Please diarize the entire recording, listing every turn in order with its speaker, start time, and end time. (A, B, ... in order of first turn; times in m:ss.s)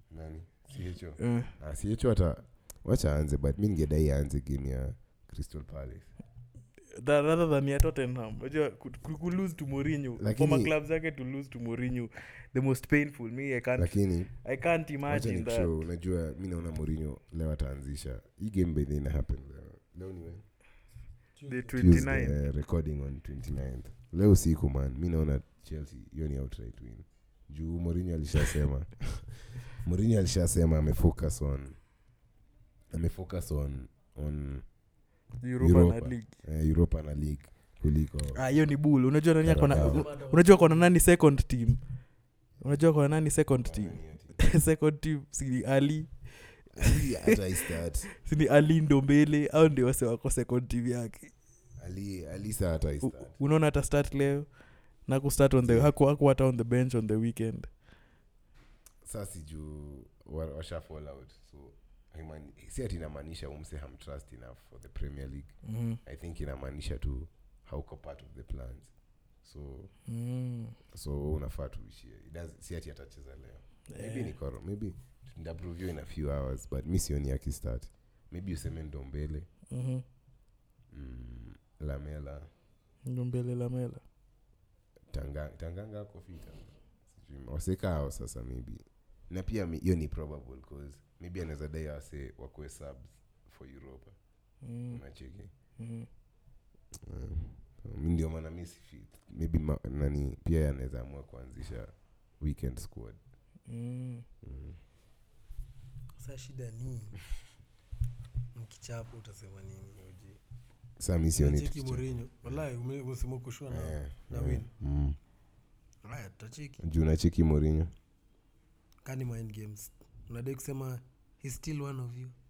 0:00.1-0:06.1 A
0:01.2-0:01.5 B
0:06.9-0:15.8 B
0:10.2-0:10.7 A
0:13.8-0:14.3 A
0:15.0-0:20.4 A
0:21.4-0:21.8 C
0:21.5-0:22.4 B
0:21.8-0:31.8 A
0:32.9-0:34.6 A
0:35.4-0:36.3 B
0:35.6-0:38.4 A
0:38.3-0:41.9 B
0:39.4-0:40.0 A
0:39.7-0:41.0 C
0:42.6-0:47.4 B
0:43.6-0:44.4 A
0:46.7-0:48.1 A
0:48.2-0:51.3 B
0:51.8-0:53.4 A
0:53.0-0:57.7 B
0:55.6-0:55.9 A
0:59.0-1:08.9 A
1:05.6-1:06.0 B
1:09.4-1:09.9 A
1:10.1-1:10.8 B
1:10.9-1:19.5 A
1:13.9-1:14.4 B
1:19.7-1:20.0 B
1:20.9-1:22.5 A
1:23.0-1:24.0 B
1:25.1-1:34.2 A
1:34.6-1:35.0 B
1:34.9-1:35.5 A
1:35.8-1:36.1 B
1:36.9-1:43.2 A
1:43.7-1:44.2 B
1:44.4-1:44.8 A
1:46.1-1:47.2 C
1:48.5-1:50.4 C
1:51.0-1:52.6 A
1:51.4-1:54.7 C
1:53.7-1:55.2 A
1:56.0-1:56.8 C
1:56.8-1:57.9 A
1:59.0-2:02.3 C